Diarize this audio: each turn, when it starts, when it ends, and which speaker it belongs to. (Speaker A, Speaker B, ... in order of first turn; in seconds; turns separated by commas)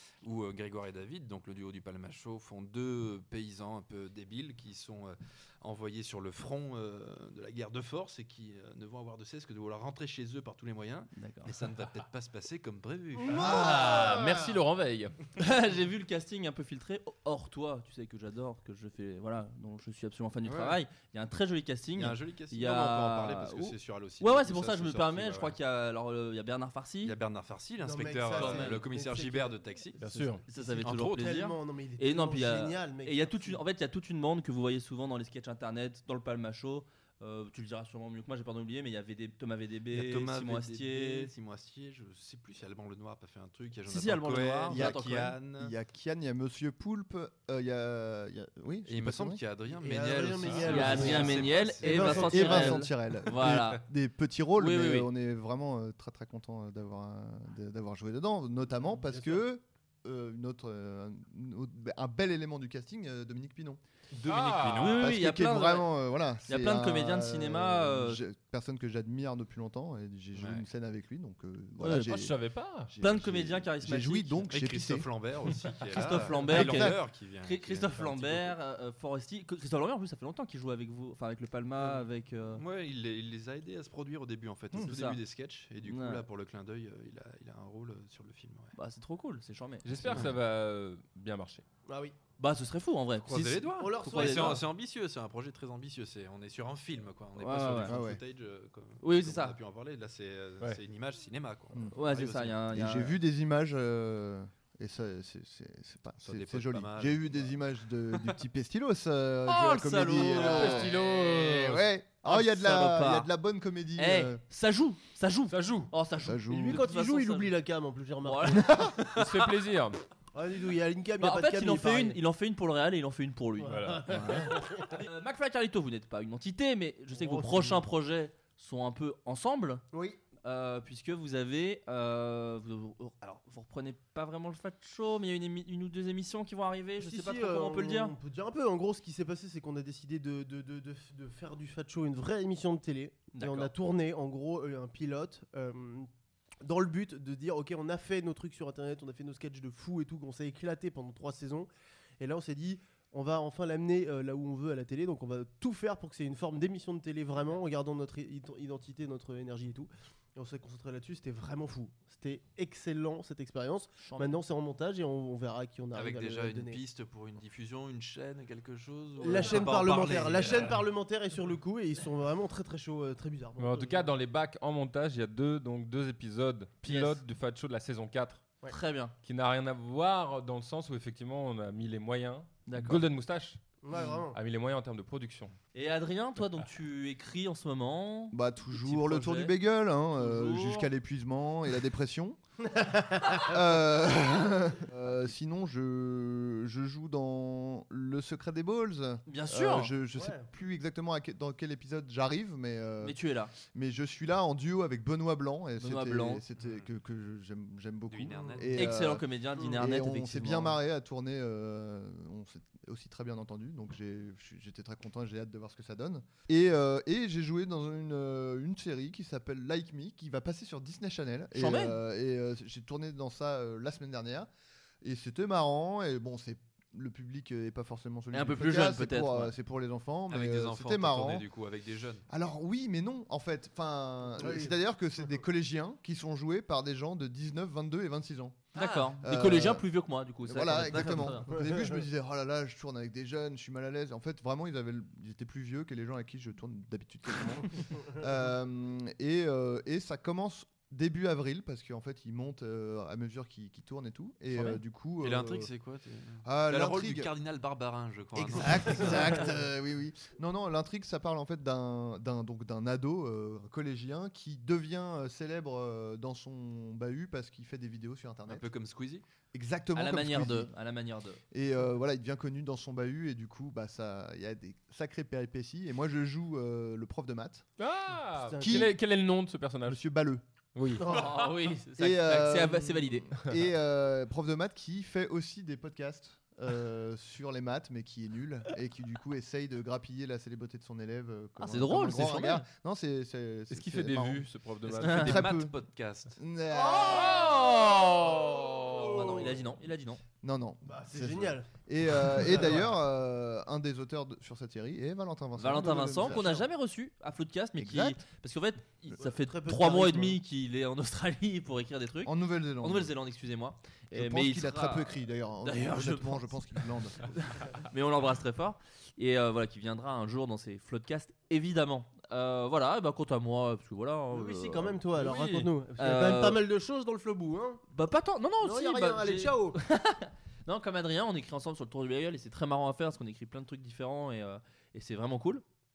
Speaker A: 0.2-13.4, Speaker B: 11.2-11.5, Speaker C: 13.2-14.6, Speaker D: 13.3-15.2, Speaker B: 15.4-27.2, Speaker A: 20.4-20.8, Speaker A: 21.9-25.6, Speaker A: 27.0-30.0, Speaker C: 27.8-29.7, Speaker B: 28.3-28.9, Speaker D: 30.0-30.4, Speaker B: 30.1-41.3, Speaker C: 30.5-33.6, Speaker A: 30.8-31.4, Speaker A: 39.9-45.7, Speaker B: 43.9-45.4, Speaker E: 44.7-49.4, Speaker A: 48.9-52.3, Speaker C: 49.8-52.9, Speaker D: 50.5-51.1, Speaker B: 50.6-53.8, Speaker E: 51.9-63.8, Speaker B: 54.6-55.1, Speaker C: 59.0-59.5, Speaker A: 64.2-65.1, Speaker D: 64.2-65.0, Speaker B: 64.7-65.9, Speaker E: 64.9-72.3, Speaker B: 66.5-68.2, Speaker A: 70.4-70.7, Speaker D: 71.8-72.9, Speaker B: 71.8-72.1, Speaker E: 72.9-75.1, Speaker B: 73.0-74.5, Speaker A: 74.5-78.6, Speaker B: 75.9-82.6, Speaker E: 76.4-77.0, Speaker A: 82.5-88.8, Speaker B: 84.8-85.2, Speaker B: 85.8-86.2, Speaker B: 88.8-90.2, Speaker D: 89.8-91.6, Speaker C: 91.9-92.2, Speaker B: 92.4-94.6, Speaker A: 93.2-102.6, Speaker C: 93.8-94.6, Speaker B: 97.4-98.0, Speaker E: 97.8-98.2, Speaker B: 99.0-99.6, Speaker B: 101.9-103.2, Speaker E: 102.7-114.4, Speaker A: 106.2-107.5, Speaker B: 109.5-110.9, Speaker D: 110.3-111.9, Speaker B: 112.2-113.3, Speaker B: 114.0-117.5, Speaker D: 115.5-115.9, Speaker E: 116.2-116.8, Speaker C: 116.5-119.0, Speaker B: 118.2-118.9, Speaker D: 119.1-120.0, Speaker C: 120.3-122.2, Speaker B: 121.2-123.9, Speaker C: 123.6-125.0, Speaker D: 123.6-124.5, Speaker B: 124.9-129.8, Speaker C: 127.1-127.9, Speaker C: 129.9-130.2, Speaker B: 130.4-138.2, Speaker C: 137.0-146.1, Speaker B: 143.3-143.7, Speaker C: 146.6-151.7, Speaker C: 152.2-166.8, Speaker B: 164.0-164.4, Speaker A: 165.9-170.8, Speaker C: 169.2-174.1, Speaker B: 169.2-170.5, Speaker D: 173.6-178.4, Speaker B: 176.8-177.2, Speaker B: 178.7-179.1, Speaker D: 179.2-185.5, Speaker B: 182.7-183.0, Speaker C: 183.8-184.4, Speaker B: 185.7-189.5, Speaker E: 188.3-192.4, Speaker B: 190.2-190.9, Speaker C: 192.7-193.6, Speaker E: 193.4-224.5, Speaker B: 199.3-199.9, Speaker C: 200.2-200.5, Speaker B: 203.0-203.5, Speaker B: 205.8-206.4, Speaker A: 206.6-206.9, Speaker A: 208.1-208.9, Speaker C: 208.3-208.6, Speaker B: 208.7-210.8, Speaker B: 221.5-222.0, Speaker E: 225.0-231.5, Speaker B: 228.3-229.5, Speaker A: 230.3-232.2, Speaker E: 232.3-238.7, Speaker C: 234.4-234.8, Speaker A: 238.8-239.2, Speaker B: 238.8-241.5, Speaker E: 239.2-239.8, Speaker E: 240.4-255.7, Speaker C: 241.5-242.0, Speaker A: 255.2-259.4, Speaker E: 256.4-257.3, Speaker E: 258.4-268.7, Speaker A: 268.5-269.2, Speaker E: 269.5-270.7, Speaker B: 270.0-271.4, Speaker E: 271.5-277.7, Speaker D: 277.8-280.0, Speaker C: 278.5-278.9, Speaker E: 278.6-279.0, Speaker E: 279.9-280.4, Speaker D: 280.8-281.1, Speaker C: 281.0-281.5, Speaker B: 281.0-283.3, Speaker E: 282.0-294.5, Speaker B: 291.6-292.7, Speaker D: 293.7-295.4, Speaker B: 295.0-295.4, Speaker A: 295.0-296.4, Speaker E: 295.2-295.7, Speaker E: 296.4-297.6, Speaker C: 296.9-297.5, Speaker D: 296.9-299.3, Speaker C: 298.2-299.6, Speaker B: 299.1-300.2, Speaker E: 300.4-306.7, Speaker C: 300.9-301.7, Speaker C: 302.3-302.9, Speaker B: 305.6-316.6, Speaker C: 306.2-306.6, Speaker E: 307.8-308.2, Speaker C: 309.2-310.4, Speaker E: 312.2-313.1, Speaker E: 314.1-317.3, Speaker B: 317.3-326.6, Speaker C: 324.3-327.8, Speaker B: 327.9-335.6, Speaker C: 328.6-329.8